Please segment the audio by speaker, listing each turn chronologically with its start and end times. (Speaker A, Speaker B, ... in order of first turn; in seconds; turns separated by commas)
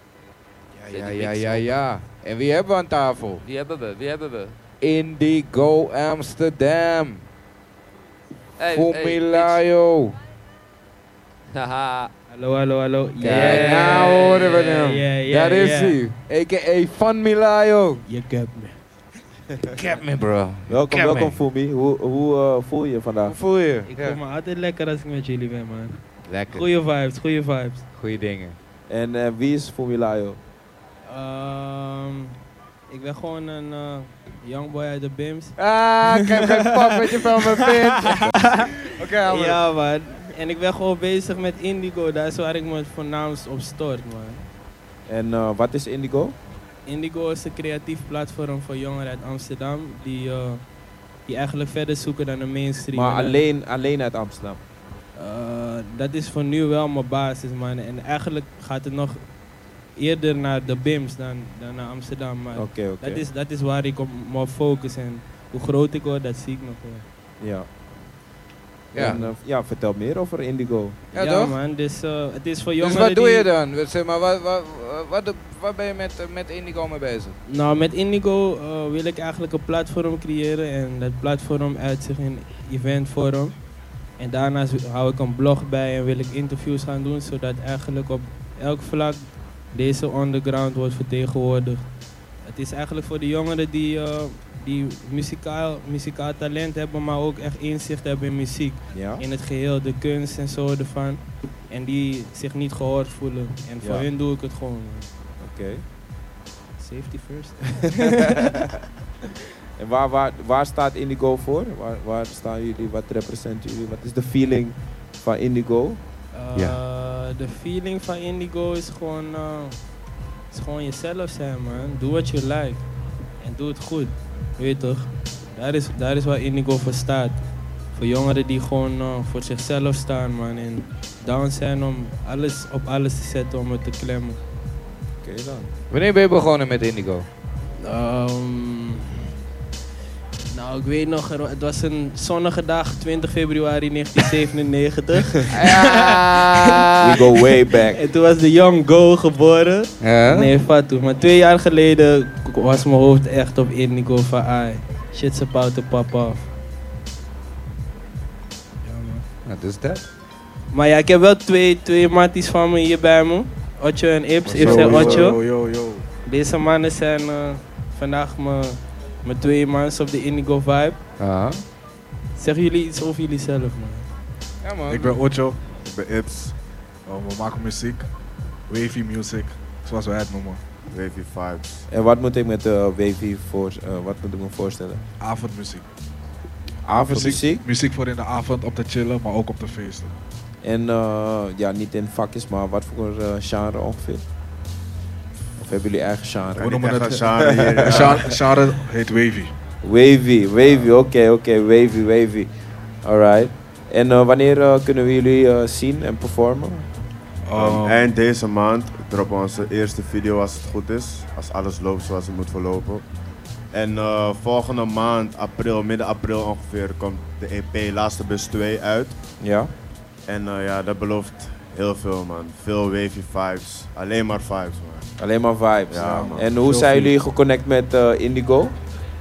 Speaker A: 0.8-3.5, Speaker B: 0.9-1.7, Speaker B: 3.4-4.6, Speaker A: 4.8-7.2, Speaker B: 8.6-9.6, Speaker A: 8.6-10.2, Speaker B: 11.5-12.1, Speaker C: 12.3-16.0, Speaker D: 13.2-13.6, Speaker A: 13.2-18.0, Speaker B: 13.5-14.6, Speaker C: 18.1-18.8, Speaker A: 19.6-21.4, Speaker D: 20.7-23.4, Speaker A: 23.3-24.2, Speaker C: 23.9-25.9, Speaker A: 26.3-26.7, Speaker C: 26.5-27.8, Speaker A: 28.0-28.6, Speaker D: 28.9-30.4, Speaker C: 31.1-32.4, Speaker C: 32.9-44.5, Speaker A: 35.6-39.6, Speaker D: 45.1-46.4, Speaker C: 46.9-50.6, Speaker C: 51.3-53.4, Speaker D: 52.9-54.6, Speaker C: 55.2-59.2, Speaker C: 60.0-67.0, Speaker D: 62.6-63.2, Speaker D: 67.4-67.7, Speaker D: 68.9-71.3, Speaker A: 69.0-69.3, Speaker C: 71.1-73.5, Speaker A: 71.2-71.6, Speaker A: 72.8-77.4, Speaker C: 77.5-83.6, Speaker C: 84.2-91.9, Speaker C: 92.5-105.1, Speaker D: 98.9-99.2, Speaker D: 103.8-104.1, Speaker D: 105.4-105.8, Speaker C: 106.8-108.6, Speaker D: 108.1-108.7, Speaker D: 109.8-116.0, Speaker C: 116.3-119.8, Speaker C: 120.5-122.8, Speaker C: 123.4-127.4, Speaker C: 127.9-134.4, Speaker D: 135.2-135.7, Speaker A: 135.9-137.3, Speaker C: 137.8-139.2, Speaker C: 140.5-156.5, Speaker A: 145.5-147.1, Speaker D: 147.0-148.0, Speaker A: 150.0-150.5, Speaker C: 158.8-159.2, Speaker A: 159.5-160.0, Speaker C: 160.7-165.4, Speaker E: 164.5-166.1, Speaker A: 164.6-165.0, Speaker D: 164.9-165.3, Speaker C: 166.3-171.0, Speaker A: 171.2-171.6, Speaker C: 172.4-174.1, Speaker A: 174.6-175.2, Speaker E: 174.9-175.6, Speaker F: 175.8-176.6, Speaker E: 177.1-178.1, Speaker E: 178.7-180.6, Speaker F: 180.9-181.8, Speaker D: 181.9-185.0, Speaker E: 185.2-185.8, Speaker D: 186.9-187.7, Speaker E: 187.1-190.1, Speaker D: 190.6-194.2, Speaker D: 195.6-196.7, Speaker F: 196.5-198.3, Speaker E: 196.6-197.2, Speaker D: 197.2-198.3, Speaker E: 197.8-199.5, Speaker D: 199.8-202.5, Speaker D: 203.1-206.9, Speaker E: 207.5-208.1, Speaker F: 207.6-213.1, Speaker F: 213.7-219.2, Speaker D: 219.4-219.7, Speaker F: 220.3-225.1, Speaker D: 225.2-228.8, Speaker F: 225.9-226.5, Speaker E: 226.0-227.1